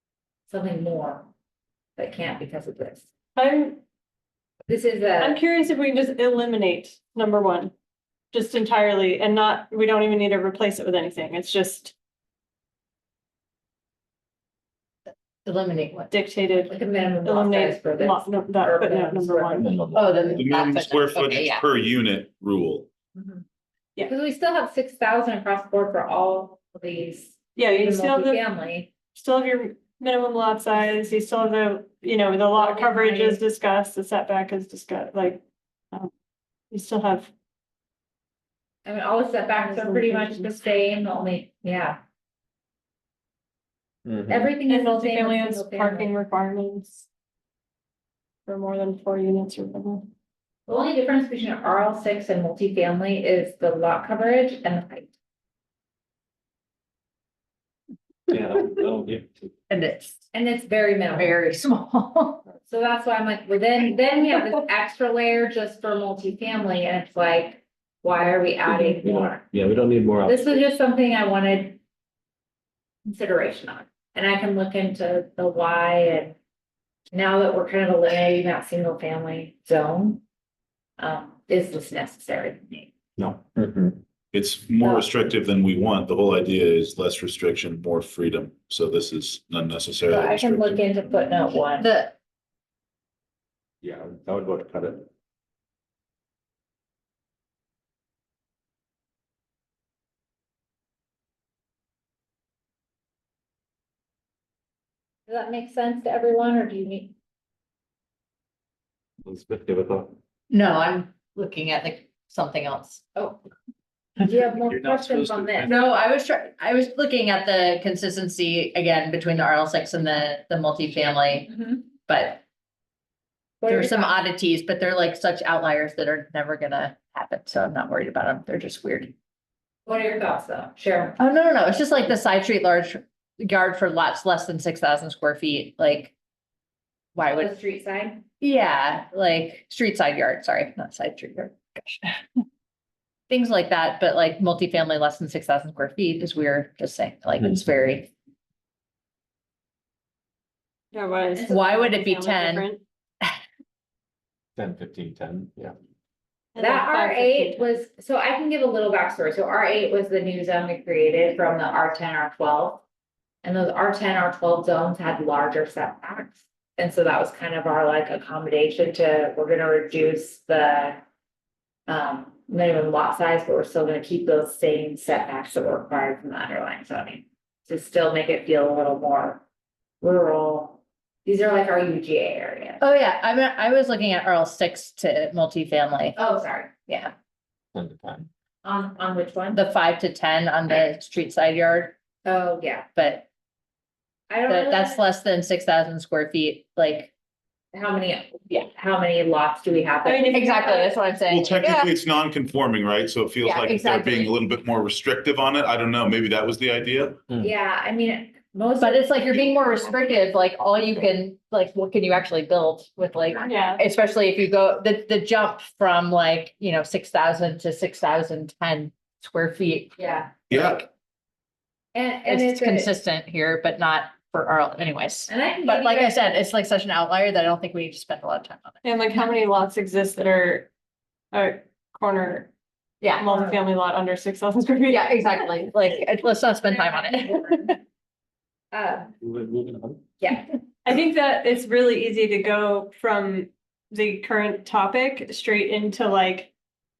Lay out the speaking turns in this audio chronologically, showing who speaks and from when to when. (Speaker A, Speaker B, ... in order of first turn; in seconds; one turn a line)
Speaker A: 0.5-1.3
Speaker A: 2.0-3.0
Speaker B: 3.4-3.8
Speaker A: 4.7-5.4
Speaker B: 5.2-7.7
Speaker B: 8.3-11.9
Speaker C: 15.4-16.1
Speaker B: 16.1-19.7
Speaker A: 16.7-19.7
Speaker D: 19.6-20.4
Speaker C: 19.9-21.6
Speaker E: 20.4-22.9
Speaker A: 23.1-23.4
Speaker A: 24.0-28.9
Speaker B: 27.6-28.4
Speaker B: 29.1-36.1
Speaker A: 32.5-33.4
Speaker B: 36.7-37.3
Speaker A: 38.8-42.0
Speaker B: 39.6-40.5
Speaker D: 44.1-44.5
Speaker A: 44.3-46.1
Speaker B: 44.7-47.1
Speaker B: 48.5-50.1
Speaker A: 50.7-55.1
Speaker D: 58.3-59.5
Speaker C: 59.7-60.3
Speaker A: 60.3-61.4
Speaker C: 61.1-62.4
Speaker A: 62.7-69.4
Speaker D: 68.7-70.6
Speaker A: 70.2-71.8
Speaker A: 73.0-76.3
Speaker A: 77.1-80.2
Speaker A: 81.0-82.9
Speaker D: 83.2-84.0
Speaker E: 84.3-90.8
Speaker A: 84.8-85.1
Speaker A: 90.1-91.9
Speaker C: 91.8-92.1
Speaker D: 93.8-95.1
Speaker A: 105.3-107.1
Speaker D: 109.2-110.1
Speaker C: 110.5-113.0
Speaker A: 113.1-113.4
Speaker A: 114.2-115.8
Speaker D: 114.6-115.7
Speaker C: 115.6-122.4
Speaker A: 121.5-121.8
Speaker A: 123.6-124.2
Speaker C: 123.7-129.1
Speaker A: 129.8-131.2
Speaker C: 131.2-136.1
Speaker C: 137.1-137.6
Speaker A: 137.3-138.2
Speaker C: 138.4-142.2
Speaker C: 143.3-148.1
Speaker B: 150.9-152.8
Speaker C: 151.4-152.7
Speaker D: 154.6-155.7
Speaker B: 156.5-157.8
Speaker A: 156.6-162.8
Speaker A: 163.4-171.0
Speaker A: 171.9-179.4
Speaker A: 180.0-182.8
Speaker C: 182.8-186.2
Speaker A: 186.2-186.7
Speaker C: 186.9-187.1
Speaker D: 187.7-188.3
Speaker A: 188.6-189.6
Speaker C: 189.5-191.9
Speaker A: 192.2-192.9
Speaker C: 192.9-193.3
Speaker A: 194.3-195.0
Speaker C: 194.5-197.1
Speaker A: 197.7-200.9
Speaker B: 200.0-200.9
Speaker C: 200.3-201.9
Speaker E: 201.3-207.2
Speaker C: 203.4-204.3
Speaker A: 207.4-209.8
Speaker C: 208.8-220.9
Speaker B: 213.4-213.8
Speaker A: 220.0-220.3
Speaker E: 220.5-220.8
Speaker A: 221.9-222.9
Speaker C: 222.2-228.8
Speaker A: 225.3-226.2
Speaker B: 228.8-230.7
Speaker B: 231.3-232.5
Speaker C: 233.0-233.4
Speaker B: 233.2-235.4
Speaker A: 233.3-233.6
Speaker C: 234.9-237.8
Speaker A: 236.6-237.8
Speaker A: 238.7-239.1
Speaker D: 239.2-240.0
Speaker A: 240.2-240.5
Speaker B: 240.8-246.5